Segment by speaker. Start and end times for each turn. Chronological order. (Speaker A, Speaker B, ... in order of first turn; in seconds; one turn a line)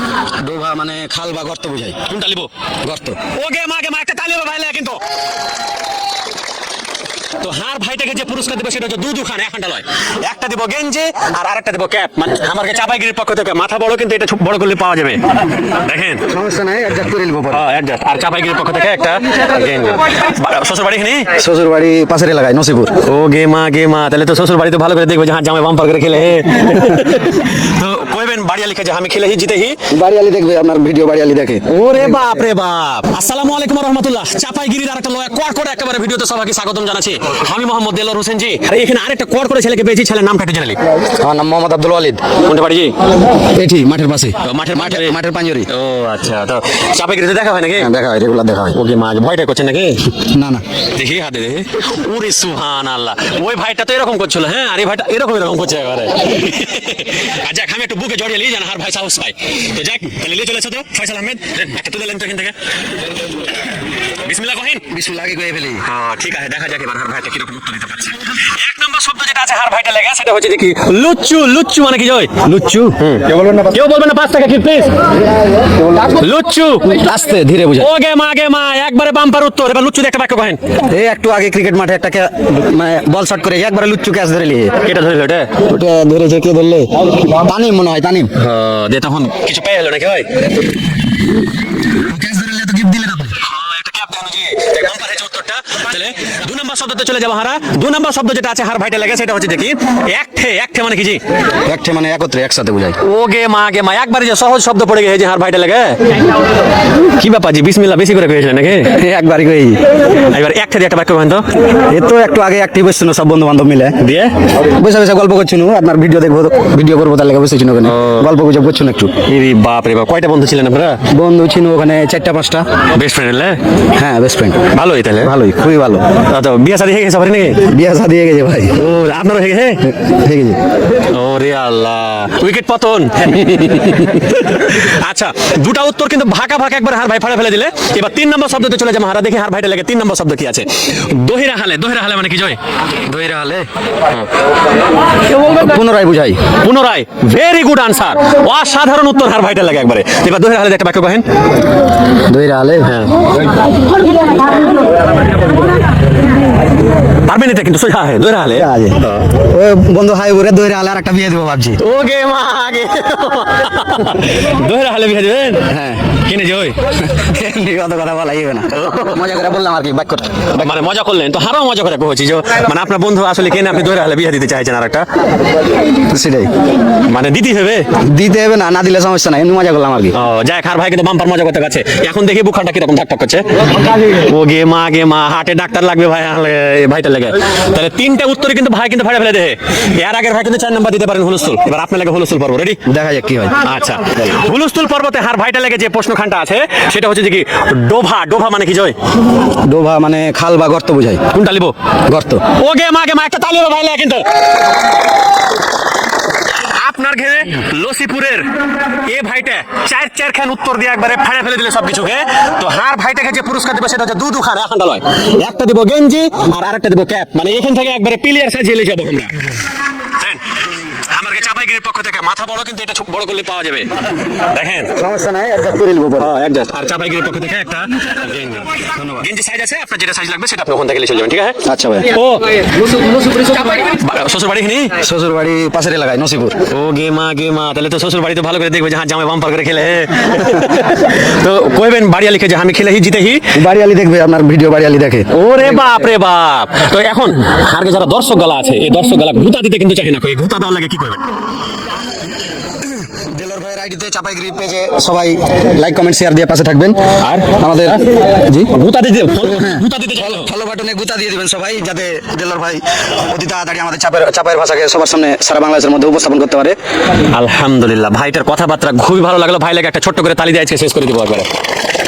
Speaker A: 0.4-2.0
Speaker B: 2.1-2.5
Speaker A: 2.8-3.2
Speaker B: 3.3-5.0
Speaker B: 7.4-16.2
Speaker A: 16.3-17.6
Speaker B: 17.5-21.3
Speaker A: 21.4-22.9
Speaker B: 23.0-29.8
Speaker A: 29.9-32.2
Speaker B: 31.7-40.8
Speaker A: 41.0-42.2
Speaker B: 42.4-43.0
Speaker A: 43.5-45.7
Speaker B: 44.4-45.2
Speaker B: 45.7-47.9
Speaker A: 47.8-48.8
Speaker B: 48.7-50.2
Speaker A: 50.3-50.6
Speaker B: 50.9-62.5
Speaker B: 64.2-64.9
Speaker A: 64.9-65.8
Speaker B: 65.8-72.4
Speaker A: 72.4-73.7
Speaker B: 73.0-74.9
Speaker B: 76.0-77.0
Speaker A: 76.9-77.9
Speaker B: 77.8-80.6
Speaker A: 80.9-84.7
Speaker B: 84.8-85.5
Speaker A: 85.6-88.3
Speaker B: 88.3-90.3
Speaker A: 92.0-93.4
Speaker B: 93.4-101.2
Speaker A: 101.7-103.0
Speaker B: 103.0-106.0
Speaker B: 107.2-108.9
Speaker A: 108.9-109.8
Speaker B: 110.3-111.4
Speaker A: 111.9-114.0
Speaker B: 114.0-114.3
Speaker A: 114.7-119.1
Speaker B: 117.8-118.3
Speaker B: 119.2-121.0
Speaker A: 121.1-122.7
Speaker B: 123.0-123.6
Speaker A: 124.0-124.6
Speaker B: 124.7-125.3
Speaker A: 125.2-126.1
Speaker B: 126.3-127.6
Speaker A: 127.6-128.8
Speaker B: 128.7-129.9
Speaker A: 129.9-130.6
Speaker B: 131.1-142.6
Speaker A: 143.1-143.7
Speaker A: 145.3-146.4
Speaker B: 146.6-151.2
Speaker A: 152.3-152.9
Speaker B: 152.8-153.2
Speaker B: 157.2-159.3
Speaker A: 158.6-161.8
Speaker B: 161.8-166.8
Speaker A: 165.7-166.1
Speaker A: 167.0-170.8
Speaker B: 168.7-169.2
Speaker B: 170.6-175.1
Speaker A: 176.1-176.5
Speaker B: 177.1-177.9
Speaker A: 178.0-180.2
Speaker B: 180.1-192.8
Speaker A: 192.9-193.6
Speaker B: 193.6-198.9
Speaker A: 199.7-201.2
Speaker B: 201.3-201.8
Speaker A: 202.1-202.4
Speaker B: 202.5-204.2
Speaker B: 206.5-219.6
Speaker B: 220.2-224.9
Speaker A: 224.9-226.3
Speaker B: 226.2-231.6
Speaker A: 228.9-229.3
Speaker A: 231.7-232.1
Speaker B: 232.1-232.5
Speaker B: 233.4-235.0
Speaker A: 235.0-236.6
Speaker B: 236.7-243.5
Speaker A: 243.6-245.3
Speaker B: 245.3-251.2
Speaker A: 252.8-257.0
Speaker B: 257.2-258.0
Speaker A: 257.6-258.7
Speaker B: 258.7-260.5
Speaker A: 259.4-266.8
Speaker B: 267.3-271.6